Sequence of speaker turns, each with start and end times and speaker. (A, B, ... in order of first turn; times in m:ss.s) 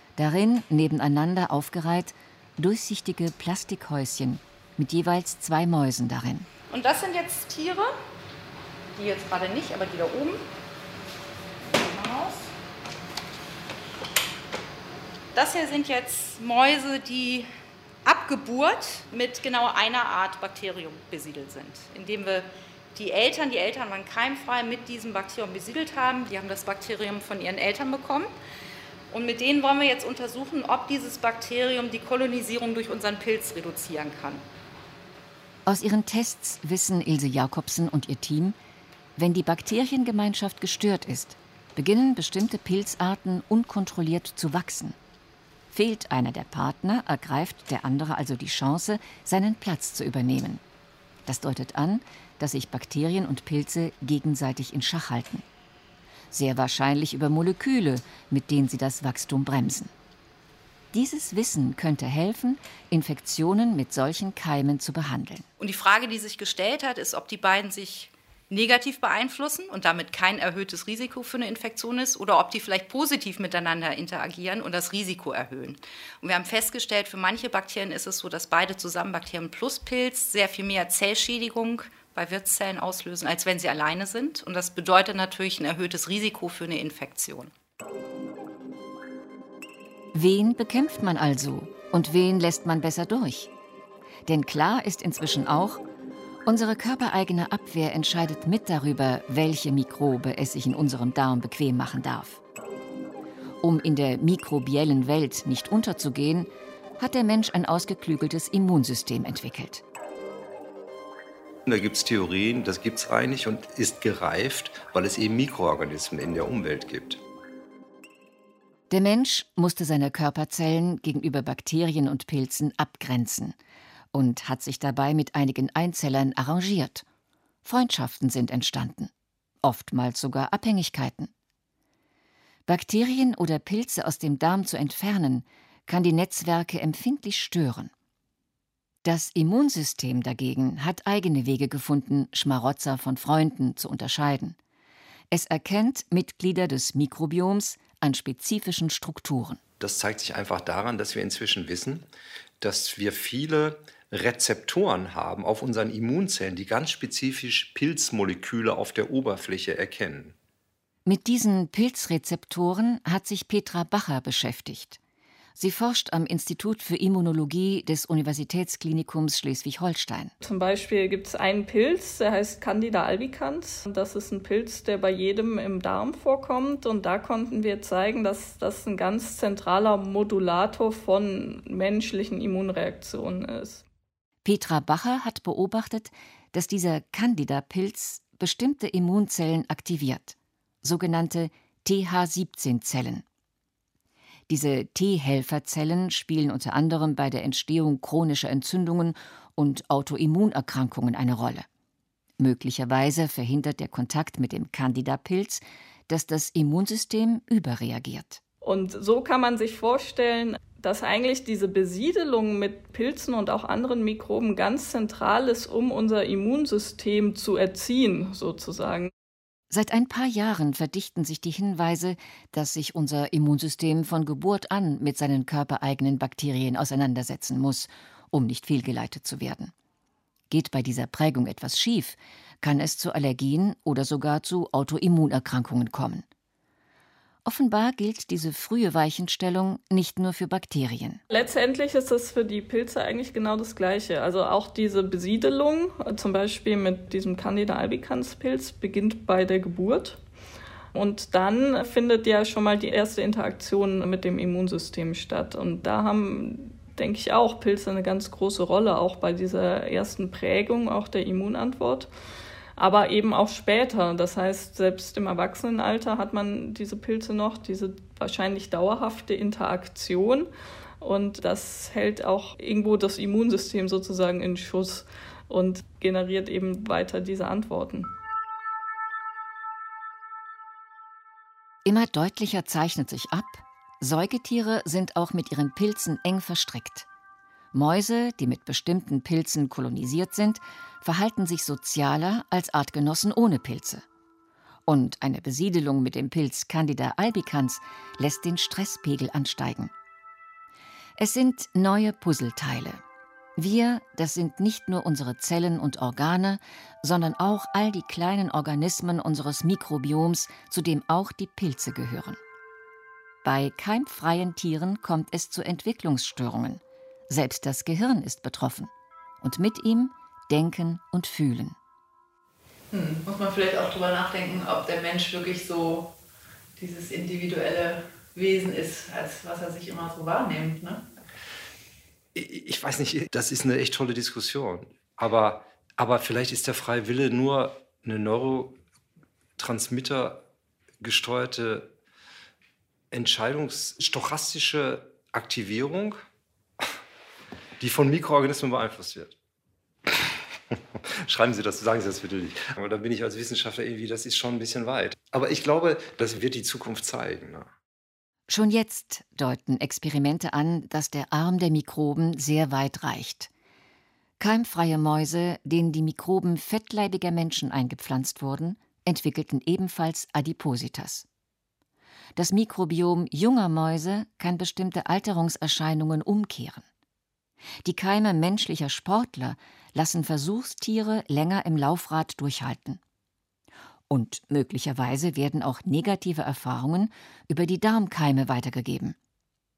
0:00.2-0:06.5 A
0:06.7-0:07.9 B
0:08.9-0:10.4 B
0:11.7-0:12.5 B
0:15.3-0:17.5 B
0:18.0-0:28.3 B
0:29.1-0:34.4 B
0:35.6-0:38.6 A
0:39.2-0:45.0 A
0:45.7-0:50.6 A
0:51.2-0:55.4 A
0:56.3-0:59.9 A
1:00.9-1:05.4 A
1:05.6-1:27.5 B
1:30.1-1:33.5 A
1:34.2-1:35.8 A
1:36.4-1:42.4 A
1:43.6-1:49.8 A
1:51.6-1:57.2 C
1:58.9-2:03.6 A
2:04.1-2:07.0 A
2:07.6-2:09.1 A
2:09.6-2:11.3 A
2:12.6-2:17.9 A
2:19.0-2:24.6 A
2:25.3-2:29.6 A
2:29.8-2:32.1 C
2:32.6-2:40.4 C
2:41.0-2:45.0 A
2:45.6-2:50.3 A
2:50.4-3:03.8 D
3:04.4-3:13.2 A
3:14.5-3:21.6 A
3:22.4-3:28.4 A
3:28.6-3:39.1 D
3:39.7-3:49.7 A
3:50.5-3:56.2 A
3:57.4-4:01.2 A
4:01.3-4:10.2 D
4:10.9-4:22.1 D
4:22.8-4:30.5 D
4:31.0-4:38.1 D
4:41.8-4:47.1 A
4:47.7-4:54.0 A
4:54.9-4:59.9 A
5:01.2-5:03.0 A
5:03.6-5:12.4 A
5:13.4-5:18.9 A
5:19.4-5:21.8 A
5:22.9-5:26.1 E
5:26.8-5:31.0 E
5:32.3-5:38.8 C
5:39.6-5:40.4 C
5:41.0-5:41.9 C
5:43.1-5:46.2 C
5:47.8-5:49.4 C
5:50.0-5:57.7 C
5:58.5-6:03.5 A
6:04.4-6:11.3 A
6:12.4-6:16.8 A
6:17.8-6:23.0 A
6:24.1-6:29.2 A